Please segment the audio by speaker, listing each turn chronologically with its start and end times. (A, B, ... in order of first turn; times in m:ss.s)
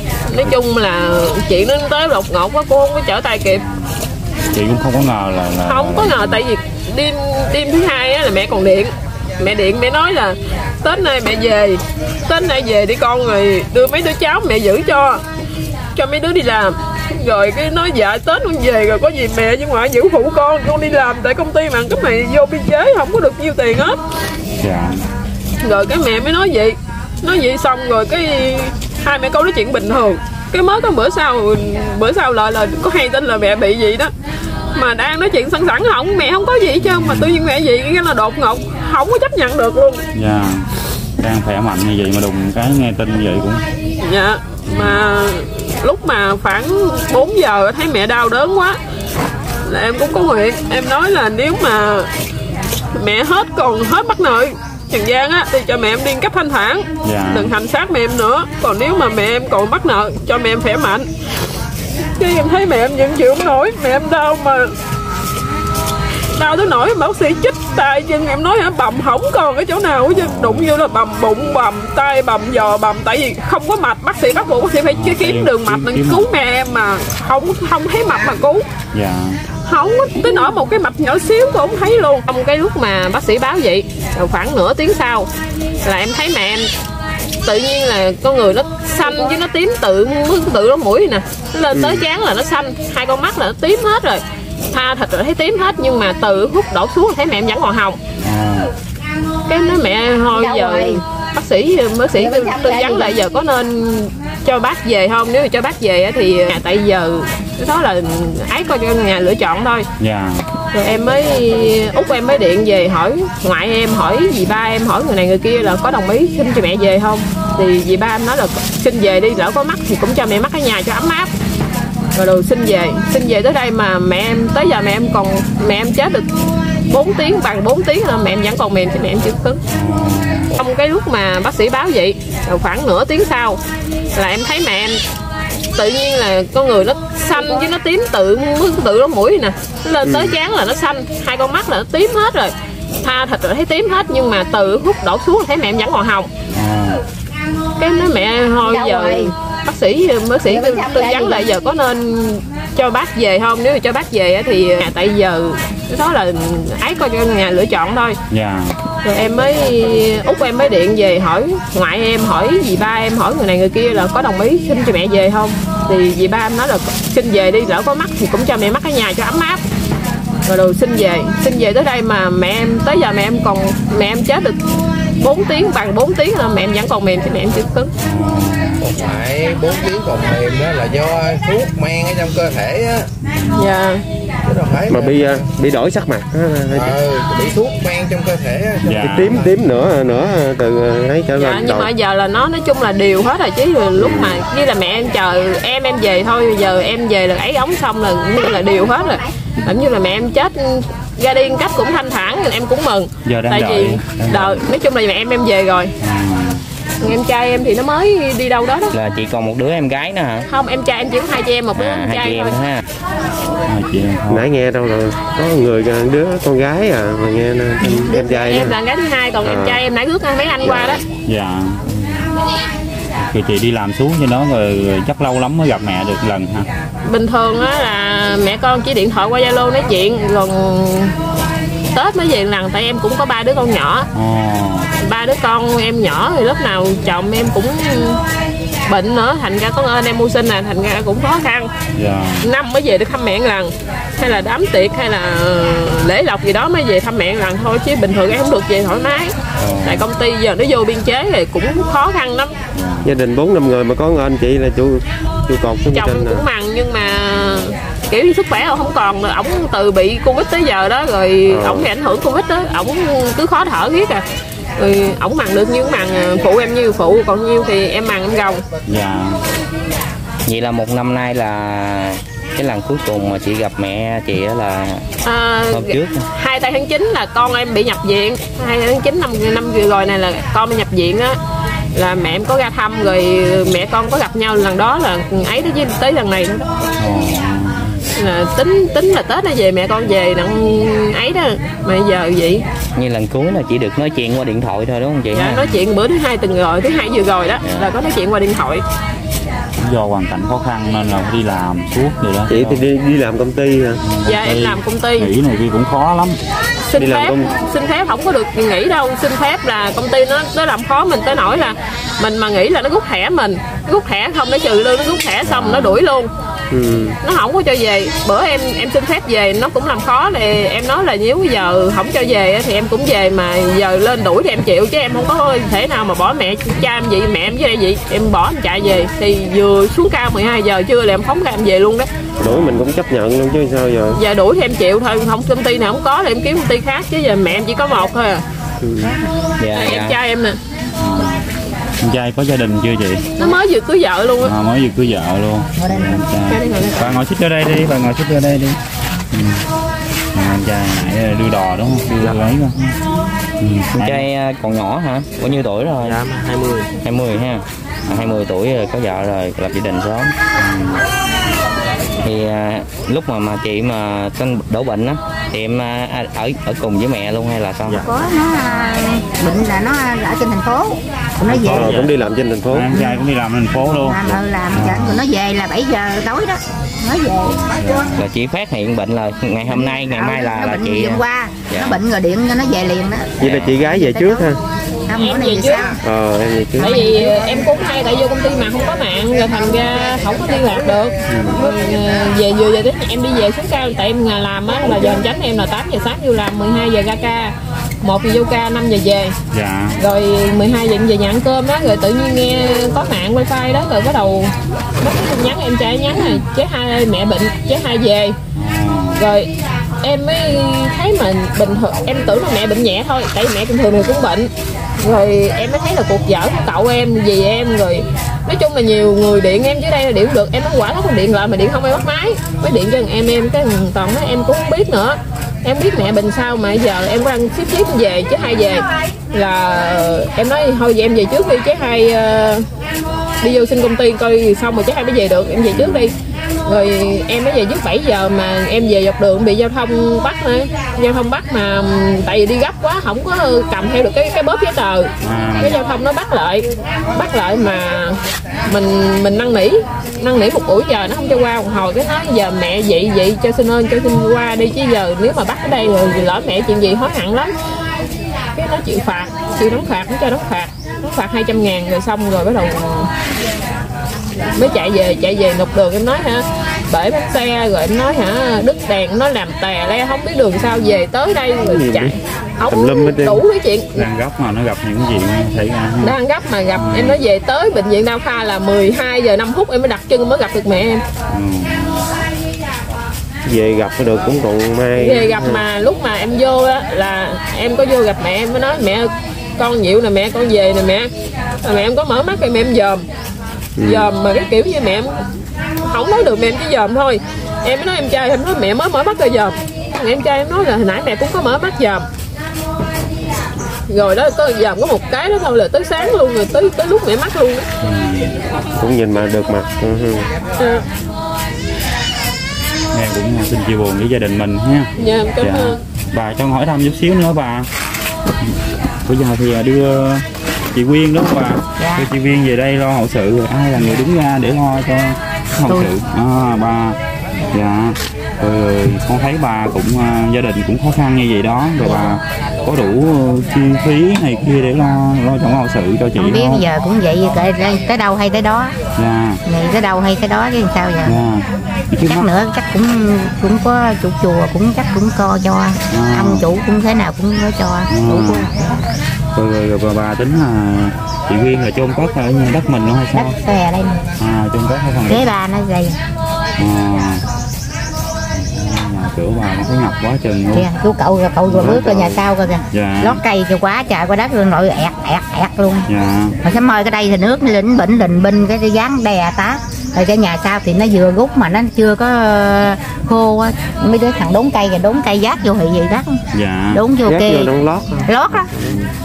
0:00.3-0:03.6 A
0:03.6-0:03.9 B
0:04.5-0:06.4 B
0:05.7-0:15.2 A
0:16.0-0:24.0 A
0:24.6-0:25.0 B
0:25.6-0:34.1 A
0:34.8-0:40.1 A
0:36.8-0:37.4 B
0:40.2-0:40.7 B
0:41.2-0:43.6 B
0:44.0-0:48.8 A
0:44.7-0:45.0 B
0:49.7-0:52.1 A
0:52.9-1:01.1 A
0:57.0-0:57.5 B
1:02.2-1:04.7 A
1:06.4-1:18.6 A
1:10.1-1:10.7 B
1:14.9-1:16.3 B
1:18.9-1:19.4 B
1:19.7-1:25.3 A
1:25.8-1:26.7 A
1:27.4-1:38.0 A
1:31.7-1:32.0 C
1:38.2-1:38.7 B
1:39.5-1:49.9 A
1:40.3-1:41.0 D
1:42.1-1:43.2 D
1:50.0-1:50.4 B
1:50.7-2:01.3 A
2:02.2-2:06.3 A
2:06.9-2:09.6 A
2:09.7-2:10.6 B
2:10.5-2:13.6 A
2:14.2-2:15.0 A
2:15.8-2:26.3 A
2:20.0-2:20.4 C
2:26.5-2:27.0 B
2:27.8-2:38.2 A
2:28.6-2:29.3 D
2:30.4-2:31.5 D
2:38.3-2:38.8 B
2:39.0-2:49.6 A
2:50.5-2:54.6 A
2:55.2-2:57.9 A
2:58.0-2:58.9 B
2:58.8-3:03.1 E
3:03.2-3:03.7 B
3:03.5-3:04.0 A
3:04.4-3:05.5 E
3:04.9-3:07.0 C
3:06.7-3:09.5 E
3:08.8-3:09.4 B
3:09.0-3:11.9 C
3:11.4-3:25.9 A
3:14.0-3:14.4 C
3:23.2-3:24.6 B
3:26.0-3:26.6 B
3:27.0-3:28.9 A
3:28.9-3:30.5 F
3:30.5-3:32.6 A
3:31.8-3:32.8 F
3:33.7-3:34.5 B
3:34.3-3:38.8 C
3:37.8-3:41.0 A
3:39.4-3:39.8 C
3:40.6-3:41.0 C
3:41.2-3:42.3 B
3:43.2-3:46.7 B
3:47.1-3:51.2 A
3:51.9-3:54.1 A
3:54.1-3:54.9 B
3:55.0-3:58.2 A
3:58.9-4:01.7 A
4:02.0-4:02.5 B
4:02.4-4:12.6 A
4:09.6-4:10.1 B
4:12.8-4:13.1 B
4:13.0-4:16.4 C
4:15.9-4:24.2 A
4:21.5-4:21.9 C
4:24.8-4:28.6 A
4:28.9-4:29.4 B
4:30.5-4:35.0 F
4:35.2-4:41.4 A
4:35.7-4:36.2 F
4:42.0-4:46.7 A
4:47.0-4:48.0 B
4:48.2-4:52.6 A
4:53.0-4:55.7 F
4:55.3-4:58.8 A
4:57.6-4:57.9 F
4:59.8-5:02.8 B
5:02.5-5:04.0 C
5:04.0-5:06.4 B
5:04.2-5:05.3 A
5:06.9-5:16.3 A
5:07.0-5:07.5 C
5:15.4-5:16.0 B
5:16.7-5:17.2 C
5:17.2-5:32.1 A
5:32.4-5:34.2 C
5:32.5-5:32.8 B
5:34.2-5:38.4 A
5:39.6-5:40.2 F
5:39.7-5:40.6 A
5:41.0-5:41.5 B
5:42.0-5:43.3 B
5:43.4-5:44.5 A
5:44.4-5:48.8 B
5:45.8-5:46.3 D
5:46.5-5:47.2 A
5:49.3-5:49.7 B
5:50.3-5:53.0 B
5:53.6-5:54.3 B
5:54.0-5:56.2 F
5:56.1-5:56.8 B
5:57.0-6:00.4 F
5:58.0-5:58.4 B
6:00.6-6:01.0 B
6:02.2-6:08.0 F
6:08.0-6:12.0 D
6:11.5-6:12.1 B
6:11.6-6:12.9 C
6:12.7-6:15.2 B
6:12.9-6:13.3 D
6:13.8-6:18.2 D
6:17.6-6:18.3 B
6:18.2-6:22.0 F
6:19.7-6:24.5 D
6:23.4-6:24.6 C
6:25.1-6:26.0 D
6:25.2-6:26.0 A
6:26.0-6:27.0 C
6:26.8-6:27.5 D
6:26.8-6:39.4 A
6:31.3-6:31.7 B
6:39.5-6:40.0 B
6:40.0-6:48.4 A
6:48.6-6:49.2 B
6:49.2-6:49.5 A
6:50.0-7:12.7 A
7:13.4-7:16.2 A
7:15.7-7:16.1 B
7:16.7-7:37.5 A
7:25.2-7:25.8 B
7:38.6-7:43.1 A
7:44.4-7:54.1 A
7:50.6-7:51.0 B
7:51.6-7:53.4 C
7:54.0-7:56.2 B
7:56.0-8:01.0 A
7:56.8-7:57.2 B
8:01.3-8:02.1 B
8:03.4-8:05.6 C
8:05.0-8:11.1 A
8:11.6-8:13.1 A
8:13.8-8:14.1 C
8:13.8-8:15.2 A
8:15.8-8:22.1 A
8:23.9-8:27.7 A
8:27.8-8:28.4 B
8:28.8-8:30.3 C
8:30.6-8:30.8 A
8:32.9-8:34.9 B
8:35.0-8:35.8 A
8:35.4-8:37.7 B
8:39.1-8:56.6 B
8:41.8-8:42.1 D
8:45.7-8:45.9 D
8:51.8-8:52.2 D
8:56.2-8:58.8 D
8:59.0-8:59.4 B
8:59.5-9:01.2 D
9:01.0-9:02.3 B
9:02.0-9:08.8 D
9:05.9-9:06.4 B
9:07.9-9:08.6 B
9:09.4-9:13.4 B
9:13.1-9:14.2 D
9:14.2-9:15.3 B
9:15.1-9:16.0 D
9:16.6-9:17.2 B
9:18.3-9:20.7 B
9:20.5-9:25.9 D
9:21.5-9:23.2 B
9:25.9-9:26.4 B
9:26.4-9:37.5 D
9:36.3-9:36.8 B
9:37.0-9:38.8 C
9:38.1-9:38.5 D
9:38.4-9:38.9 B